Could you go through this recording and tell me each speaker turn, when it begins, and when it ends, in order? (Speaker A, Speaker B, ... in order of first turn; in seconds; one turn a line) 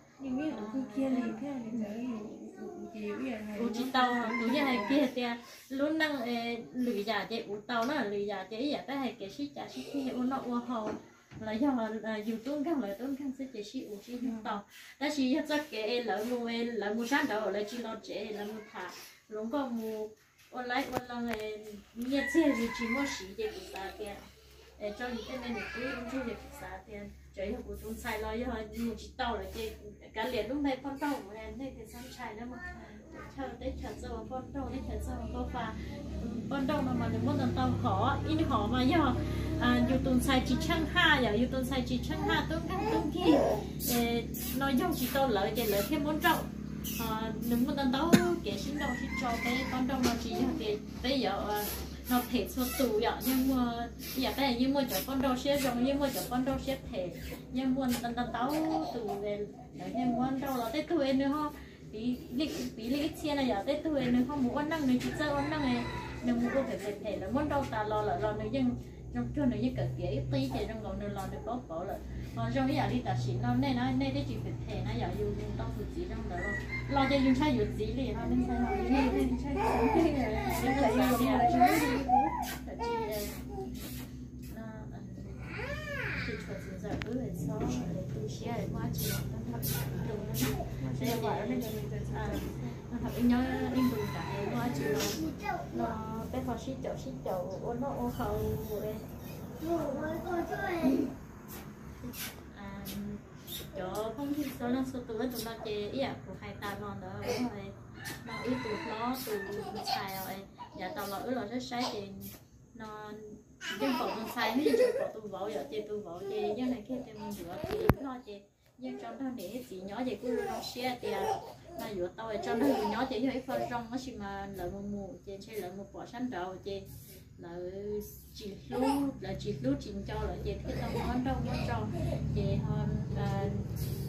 Speaker A: 0.2-5.0
Speaker B: 0.5-2.0
Speaker B: 3.5-81.6
Speaker A: 14.2-14.6
Speaker A: 78.8-82.4
Speaker B: 82.6-83.5
Speaker B: 84.5-85.5
Speaker B: 86.1-99.1
Speaker A: 90.1-92.8
Speaker B: 99.6-101.1
Speaker B: 102.0-126.9
Speaker B: 127.4-133.7